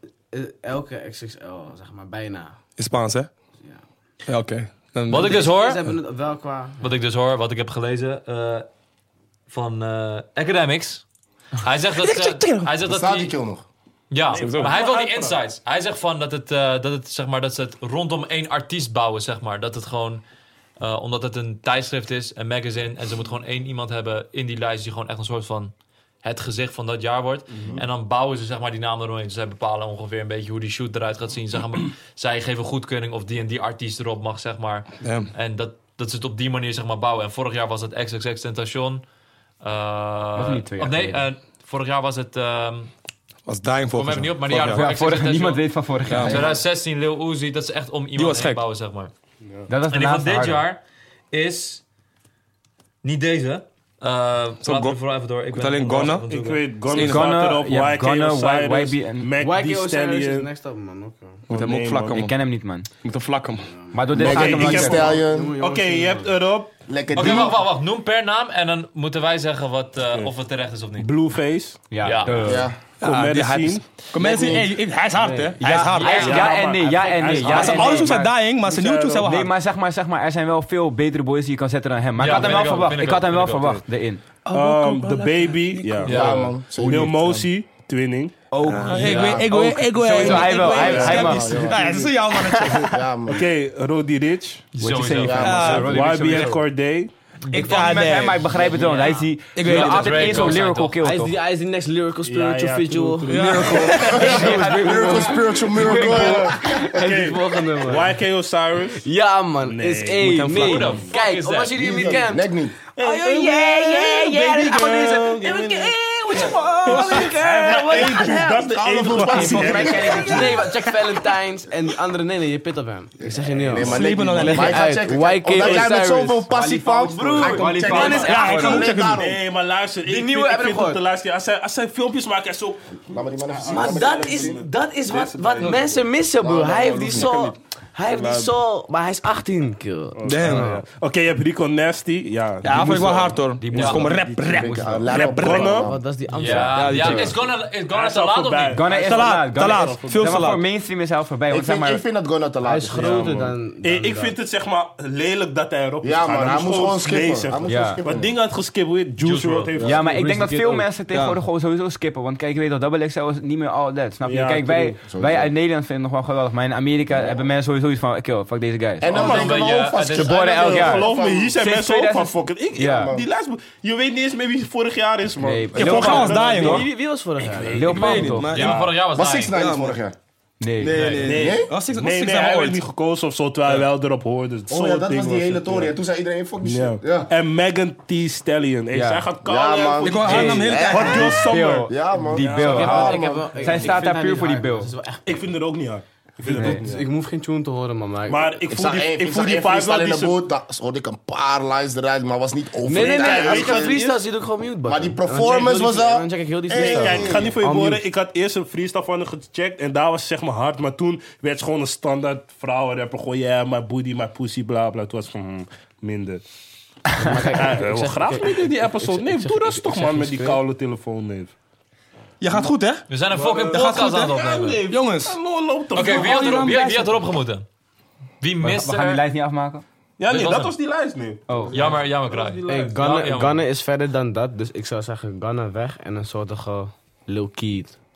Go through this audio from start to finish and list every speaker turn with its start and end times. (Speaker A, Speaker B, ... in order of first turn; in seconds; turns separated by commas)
Speaker A: 0.3-2.6, Speaker B: 2.8-3.3, Speaker B: 4.3-5.5, Speaker C: 5.1-5.8, Speaker A: 5.1-6.9, Speaker C: 6.8-8.7, Speaker C: 9.5-11.0, Speaker C: 11.6-13.3, Speaker B: 12.0-12.7, Speaker D: 12.8-13.7, Speaker C: 14.1-20.2, Speaker E: 14.3-15.4, Speaker B: 14.4-14.7, Speaker C: 20.8-25.7, Speaker C: 26.2-39.0, Speaker B: 35.0-35.3, Speaker C: 39.6-42.9, Speaker F: 40.4-41.3, Speaker B: 43.5-44.9, Speaker C: 43.9-49.1, Speaker F: 44.6-46.6, Speaker B: 46.1-46.5, Speaker B: 48.2-48.6, Speaker F: 49.7-50.6, Speaker C: 49.9-51.8, Speaker C: 53.0-56.6, Speaker B: 54.6-55.0, Speaker B: 55.5-56.3, Speaker E: 56.1-60.5, Speaker B: 56.9-57.3, Speaker F: 57.0-59.3, Speaker A: 59.4-61.5, Speaker B: 61.5-62.3, Speaker E: 61.5-62.2, Speaker F: 62.1-62.9, Speaker B: 63.0-63.7, Speaker A: 63.7-66.3, Speaker F: 63.9-65.1, Speaker D: 64.1-65.5, Speaker E: 64.2-66.7, Speaker D: 66.9-67.6, Speaker C: 67.1-71.1, Speaker E: 71.0-71.9, Speaker F: 71.9-72.7, Speaker C: 72.0-72.5, Speaker D: 72.4-73.0, Speaker E: 73.0-74.6, Speaker B: 73.0-76.4, Speaker A: 75.2-75.6, Speaker F: 75.6-78.3, Speaker C: 75.8-76.5, Speaker E: 76.1-79.3, Speaker B: 77.4-79.5, Speaker F: 79.2-84.2, Speaker C: 82.2-83.8, Speaker B: 84.5-86.2, Speaker E: 84.5-88.4, Speaker C: 86.0-86.5, Speaker D: 86.1-87.5, Speaker F: 86.8-87.1, Speaker F: 88.5-93.0, Speaker B: 88.6-93.0, Speaker D: 88.9-89.7, Speaker C: 89.0-89.5, Speaker E: 89.7-91.4, Speaker D: 90.2-92.1, Speaker D: 92.9-93.5, Speaker E: 93.3-94.7, Speaker C: 94.8-95.7, Speaker F: 94.8-96.7, Speaker D: 95.2-96.1, Speaker B: 95.4-96.0, Speaker E: 95.8-97.1, Speaker C: 97.5-101.0, Speaker B: 97.5-98.8, Speaker F: 97.5-101.4, Speaker B: 99.5-100.6, Speaker A: 101.0-108.2, Speaker E: 102.2-104.1, Speaker B: 103.3-104.4, Speaker F: 103.7-106.6, Speaker D: 103.9-107.0, Speaker E: 105.8-109.1, Speaker A: 109.0-128.8, Speaker E: 109.6-111.1, Speaker C: 110.5-112.1, Speaker D: 111.7-112.8, Speaker E: 113.0-120.5, Speaker B: 116.8-117.4, Speaker D: 117.9-120.6, Speaker F: 119.5-120.6, Speaker D: 123.2-129.4, Speaker B: 123.8-124.9, Speaker E: 125.6-125.9, Speaker F: 126.5-128.8, Speaker E: 127.7-128.3, Speaker B: 128.0-129.2, Speaker E: 129.1-132.9, Speaker A: 130.1-131.0, Speaker D: 133.1-134.7, Speaker E: 133.7-136.0, Speaker A: 133.7-140.8, Speaker D: 136.4-137.3, Speaker B: 137.1-137.6, Speaker E: 140.2-143.9, Speaker B: 140.3-140.7, Speaker B: 142.6-145.7, Speaker F: 143.6-144.6, Speaker C: 143.7-144.2, Speaker D: 144.4-146.1, Speaker E: 145.1-145.9, Speaker A: 145.8-147.4, Speaker C: 146.3-148.8, Speaker B: 146.7-147.4, Speaker E: 147.9-150.5, Speaker F: 148.7-152.0, Speaker B: 148.9-150.6, Speaker D: 151.5-153.4, Speaker A: 152.6-154.4, Speaker E: 153.0-160.6, Speaker D: 156.0-158.4, Speaker F: 157.7-158.0, Speaker C: 159.2-159.7, Speaker F: 159.8-169.4, Speaker A: 160.4-160.8, Speaker B: 161.1-161.4, Speaker E: 164.2-165.0, Speaker D: 165.1-165.5, Speaker D: 167.2-167.4, Speaker D: 169.0-171.6, Speaker E: 169.1-169.6, Speaker C: 169.1-170.4, Speaker F: 170.1-173.1, Speaker E: 170.3-176.9, Speaker D: 172.8-173.2, Speaker F: 175.4-176.5, Speaker B: 175.8-176.9, Speaker A: 176.0-178.3, Speaker E: 177.5-178.7, Speaker F: 177.7-178.7, Speaker B: 177.8-178.9, Speaker C: 178.5-179.5, Speaker D: 179.1-180.2, Speaker B: 179.5-180.0, Speaker F: 180.6-181.2, Speaker B: 180.8-182.8, Speaker C: 180.9-181.2, Speaker E: 181.2-185.9, Speaker D: 181.3-181.7, Speaker D: 184.7-187.3, Speaker E: 186.6-193.1, Speaker F: 188.9-189.3, Speaker D: 189.4-194.0, Speaker B: 190.0-191.3, Speaker F: 190.3-194.9, Speaker A: 192.6-195.5, Speaker E: 195.3-197.1, Speaker A: 196.4-198.6, Speaker F: 196.5-196.8, Speaker E: 198.3-200.4, Speaker D: 198.7-204.1, Speaker A: 202.8-208.0, Speaker E: 203.0-204.2, Speaker D: 204.8-207.6, Speaker E: 206.8-216.4, Speaker A: 217.2-220.6, Speaker E: 217.4-221.5, Speaker B: 222.4-223.1, Speaker C: 223.1-224.9, Speaker E: 223.3-226.7, Speaker B: 223.7-225.4, Speaker B: 225.9-227.2, Speaker C: 225.9-227.7, Speaker C: 228.4-229.2, Speaker F: 228.6-229.8, Speaker E: 230.2-233.0, Speaker C: 230.3-230.7, Speaker F: 231.5-231.8, Speaker C: 231.7-233.6, Speaker A: 232.7-238.0